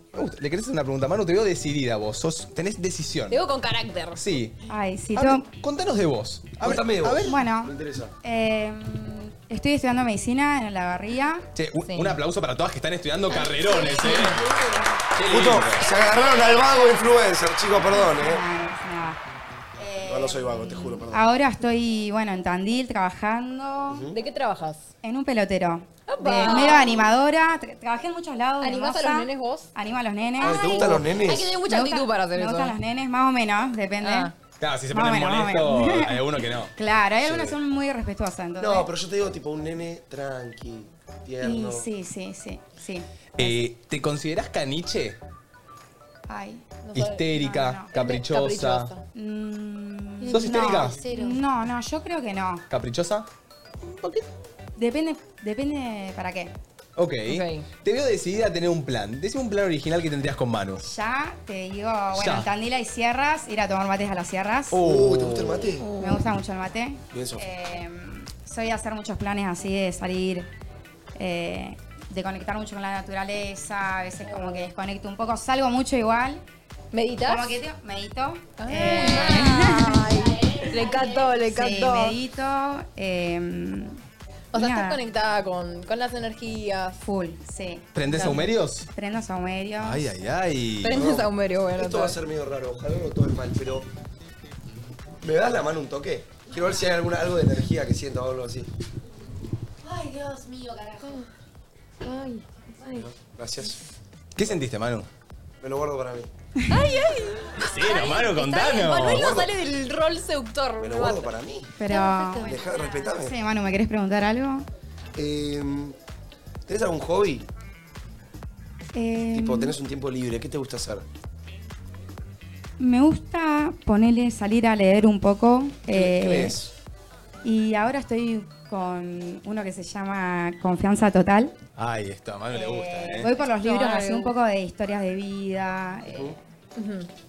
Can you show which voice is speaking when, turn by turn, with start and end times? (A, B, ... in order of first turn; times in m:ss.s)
0:00.1-0:03.4 A
0:03.3-0:04.2 B
0:04.2-0:04.5 A
0:04.7-0:05.4 C
0:05.1-0:07.4 A
0:06.6-0:08.1 D
0:07.2-0:11.5 C
0:11.5-0:14.4 A
0:11.8-0:12.2 B
0:13.3-0:15.0 E
0:14.0-0:14.3 B
0:15.2-0:15.9 A
0:15.2-0:18.4 D
0:15.8-0:17.1 B
0:17.9-0:19.2 C
0:19.8-0:24.1 C
0:20.0-0:21.3 D
0:23.9-0:24.2 D
0:24.1-0:24.8 B
0:25.0-0:34.3 C
0:26.1-0:27.0 B
0:28.6-0:29.7 B
0:30.4-0:31.6 D
0:30.4-0:32.8 B
0:34.0-0:34.3 B
0:34.6-0:36.7 A
0:34.9-0:36.2 C
0:36.7-0:38.9 C
0:37.2-0:37.6 D
0:38.6-0:41.9 D
0:41.4-0:43.6 C
0:43.4-0:45.2 A
0:46.2-0:46.6 C
0:46.8-0:47.3 B
0:46.9-0:48.9 A
0:47.3-0:47.9 C
0:47.9-0:49.0 B
0:49.1-0:52.6 C
0:50.2-0:51.4 E
0:50.3-0:51.0 A
0:52.7-0:53.3 A
0:54.0-0:54.2 A
0:54.8-0:56.5 C
0:57.0-1:00.8 A
0:57.3-0:57.7 B
1:00.8-1:04.8 C
1:02.1-1:02.5 A
1:04.7-1:05.7 A
1:04.8-1:05.9 D
1:05.8-1:06.2 B
1:05.9-1:10.5 C
1:07.1-1:07.4 D
1:11.2-1:16.4 C
1:14.3-1:14.6 B
1:16.9-1:17.6 B
1:17.2-1:24.0 C
1:18.6-1:22.2 B
1:20.1-1:21.3 E
1:24.5-1:25.0 C
1:24.5-1:27.0 B
1:27.0-1:30.1 C
1:27.9-1:28.9 A
1:29.8-1:31.1 A
1:30.8-1:32.2 B
1:30.9-1:33.9 D
1:35.2-1:38.7 D
1:39.8-1:41.3 E
1:42.0-1:43.1 E
1:43.0-1:43.8 D
1:44.4-1:45.1 A
1:45.6-1:46.3 D
1:46.6-1:47.0 C
1:46.7-1:51.3 B
1:47.6-1:49.4 A
1:49.0-1:49.5 D
1:50.8-1:51.8 D
1:51.8-1:52.5 C
1:51.9-1:53.2 E
1:52.4-1:53.4 D
1:53.1-1:54.7 C
1:55.1-1:56.0 D
1:56.6-1:57.5 D
1:58.9-1:59.8 C
1:59.3-2:01.0 D
2:02.8-2:06.6 C
2:05.9-2:06.7 D
2:07.4-2:11.6 C
2:11.8-2:13.3 A
2:12.5-2:16.4 C
2:13.4-2:14.3 B
2:16.1-2:16.4 D
2:16.8-2:17.1 B